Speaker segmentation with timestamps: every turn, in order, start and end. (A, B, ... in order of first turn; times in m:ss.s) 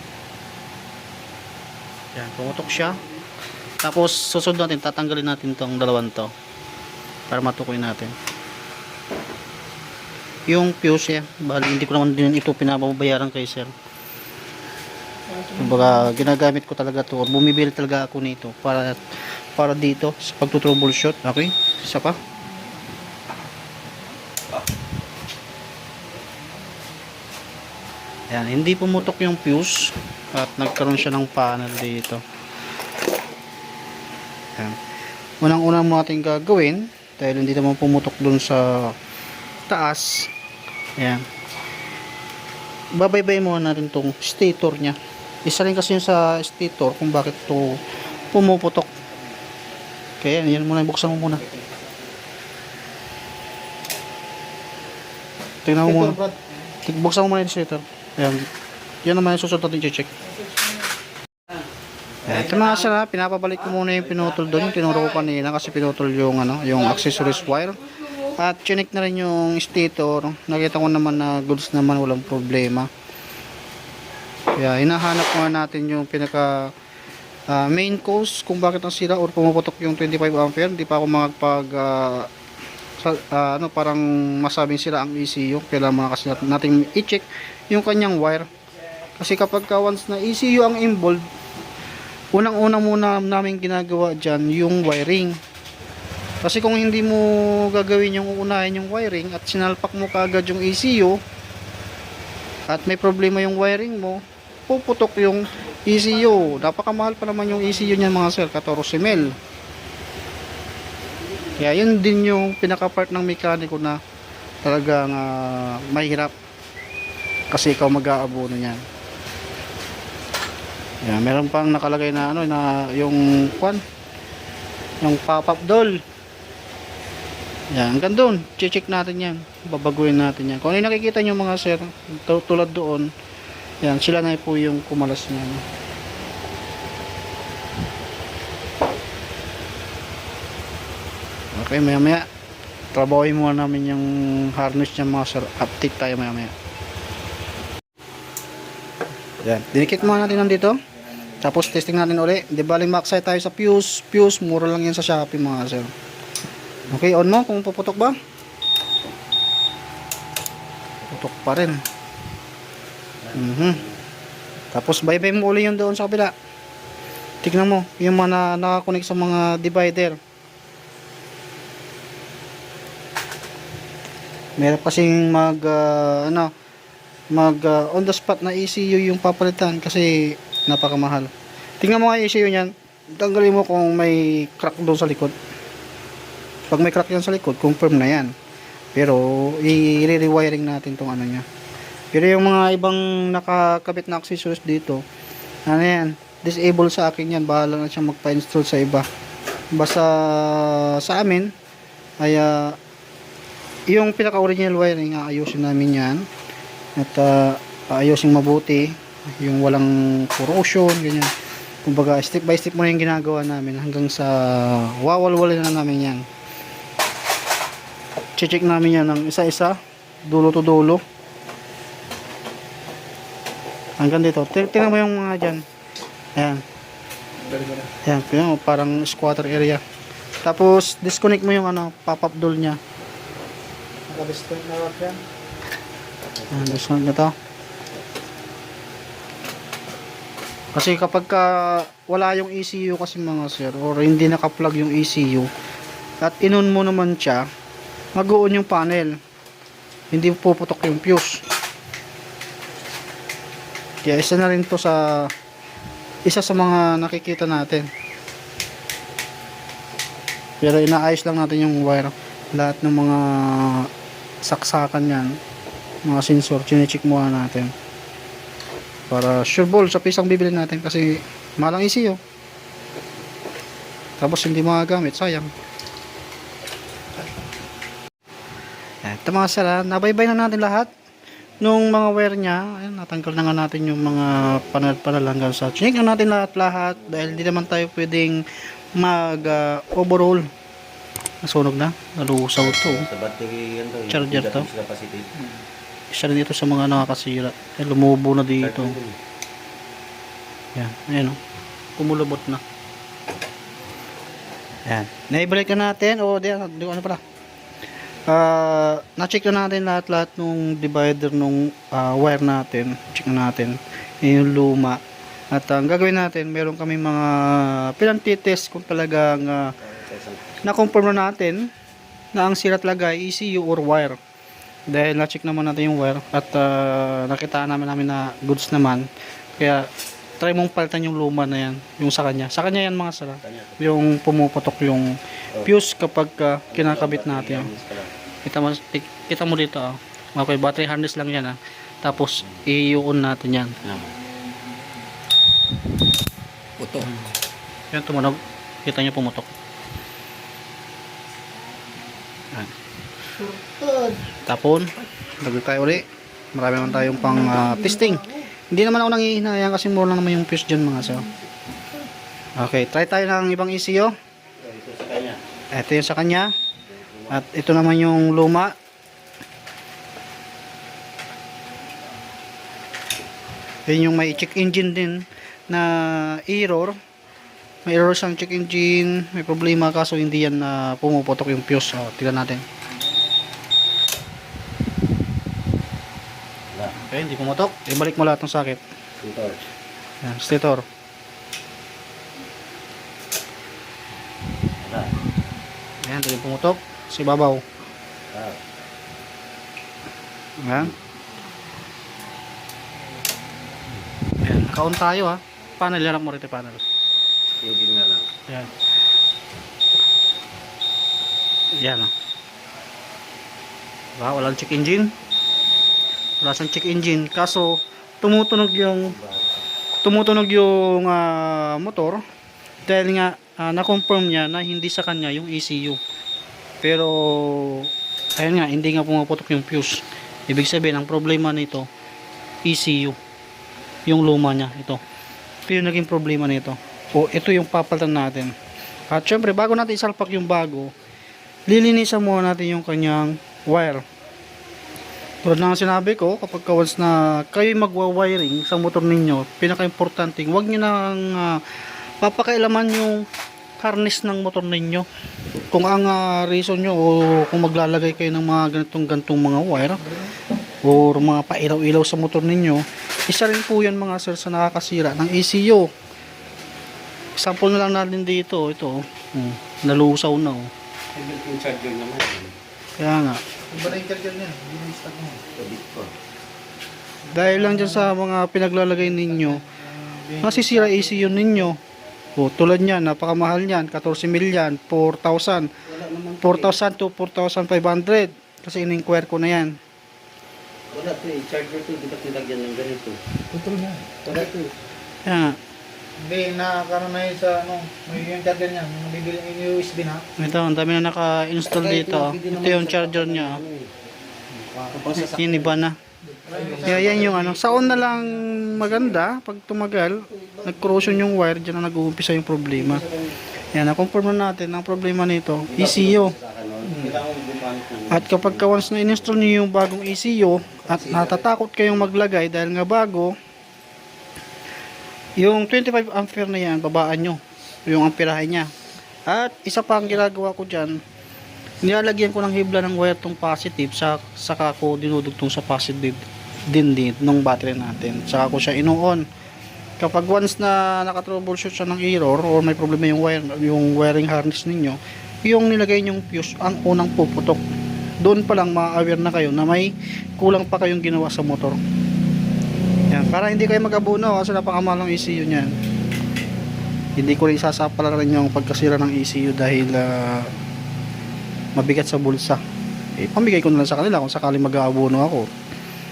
0:02.1-0:03.0 A
0:03.8-0:06.3 A
0:07.3-0:08.2 A
0:10.5-0:13.7 A
0:15.5-0:19.0 A
0:19.6-0:22.2 A
0:28.3-0:32.2 A
0:35.4-0:38.9 A
0:39.7-0:40.3 A
0:41.0-0:41.2 A
0:42.9-0:47.8 A
0:48.3-0:48.9 A
0:50.2-0:51.4 A
0:55.6-0:56.2 A
0:55.8-0:56.4 B
0:56.8-0:58.5 A
0:59.0-1:00.1 A
1:02.2-1:12.9 A
1:14.6-1:16.7 A
1:17.5-1:22.3 A
1:23.0-1:28.5 A
1:29.2-1:31.3 A
1:32.3-1:35.4 A
1:36.4-1:41.2 A
1:42.7-1:49.4 A
1:51.6-1:54.0 A
1:54.6-1:56.3 A
1:57.5-1:58.8 A
2:01.0-2:03.8 A
2:05.0-2:06.0 A
2:07.7-2:13.1 A
2:13.8-2:15.6 A
2:21.5-2:22.3 A
2:22.9-2:26.5 A
2:29.4-2:30.8 A
2:31.4-2:35.9 A
2:36.9-2:38.2 A
2:41.1-2:41.8 A
2:43.2-2:44.0 C
2:43.3-2:43.8 A
2:44.7-2:46.3 A
2:47.4-2:50.2 A
2:54.6-2:56.5 A
2:57.3-3:05.3 A
3:06.7-3:08.3 A
3:08.9-3:11.4 A
3:12.1-3:15.0 A
3:15.7-3:19.0 A
3:19.7-3:21.5 A
3:22.2-3:22.8 A
3:23.9-3:26.3 A
3:27.0-3:31.3 A
3:31.8-3:36.2 A
3:38.4-3:41.0 A
3:44.0-3:45.6 A
3:46.4-3:46.6 A
3:47.5-3:47.9 B
3:48.0-3:49.8 A
3:50.4-3:52.8 A
3:54.1-3:55.2 B
3:56.4-3:56.9 C
3:56.5-3:57.3 A
4:00.7-4:05.5 A
4:06.2-4:07.5 A
4:08.1-4:09.2 A
4:10.1-4:11.4 A
4:14.0-4:15.3 A
4:16.2-4:17.9 A
4:20.6-4:23.9 A
4:24.4-4:25.4 A
4:26.0-4:27.7 A
4:29.1-4:32.2 A
4:34.2-4:35.5 A
4:39.0-4:40.9 A
4:41.6-4:48.4 A
4:44.3-4:44.8 C
4:47.1-4:47.6 C
4:49.0-4:50.5 A
4:51.4-4:53.1 A
4:52.6-4:55.4 C
4:54.1-4:54.7 A
4:56.1-4:59.0 A
4:58.6-4:59.2 C
5:00.8-5:01.4 A
5:02.0-5:02.6 A
5:04.8-5:07.2 A
5:08.3-5:15.0 A
5:15.5-5:19.7 A
5:19.8-5:20.6 C
5:20.6-5:21.7 A
5:22.3-5:24.2 A
5:24.9-5:29.9 A
5:30.4-5:37.7 A
5:33.4-5:33.8 C
5:36.7-5:38.1 C
5:38.4-5:43.8 A
5:43.8-5:44.1 C
5:47.0-5:47.3 A
5:47.9-5:49.5 A
5:53.4-5:54.2 B
5:54.4-6:01.2 A
5:57.3-5:58.4 B
6:02.6-6:04.1 A
6:04.6-6:05.4 C
6:05.7-6:06.5 A
6:06.9-6:07.4 C
6:07.3-6:08.7 A
6:13.9-6:17.0 A
6:17.8-6:22.6 A
6:26.9-6:28.8 A
6:29.2-6:29.6 C
6:30.2-6:30.8 A
6:34.8-6:35.2 C
6:36.0-6:37.6 A
6:38.3-6:38.6 C
6:40.6-6:40.9 A
6:44.4-6:46.8 A
6:47.6-6:48.3 C
6:51.7-6:52.1 A
6:54.2-6:55.1 A
6:56.4-6:59.1 A
6:59.0-6:59.6 C
7:00.0-7:02.2 A
7:02.9-7:06.0 A
7:06.8-7:11.9 A
7:12.6-7:13.2 A
7:14.1-7:15.0 A
7:15.7-7:18.5 A
7:19.1-7:20.9 A
7:21.7-7:24.0 A
7:25.4-7:31.6 A
7:32.2-7:33.2 A
7:33.8-7:35.1 A
7:35.7-7:40.0 A
7:40.8-7:45.9 A
7:47.4-7:50.7 A
7:51.1-7:52.6 C
7:53.0-7:53.4 A
7:53.7-7:55.4 B
7:55.6-7:56.1 C
7:57.3-7:58.1 B
7:57.3-7:59.6 A
7:59.0-8:01.7 B
8:00.4-8:01.8 A
8:02.4-8:05.7 A
8:05.8-8:06.8 C
8:06.4-8:09.8 A
8:10.9-8:13.2 C
8:13.5-8:14.4 B
8:14.2-8:14.7 C
8:15.2-8:15.6 A
8:16.2-8:20.2 B
8:20.4-8:23.6 A
8:21.7-8:23.9 C
8:24.9-8:25.8 C
8:25.1-8:26.0 A
8:26.4-8:28.4 B
8:26.5-8:27.4 C
8:26.8-8:33.0 A
8:32.8-8:33.4 C
8:33.7-8:36.3 A
8:35.7-8:39.5 C
8:38.1-8:43.4 A
8:40.9-8:41.5 C
8:45.4-8:48.7 A
8:49.3-8:51.0 A
8:51.8-8:59.2 A
9:00.0-9:07.6 A
9:08.2-9:11.8 A
9:13.1-9:15.7 A
9:17.2-9:20.5 A
9:21.8-9:22.6 A
9:23.2-9:25.5 A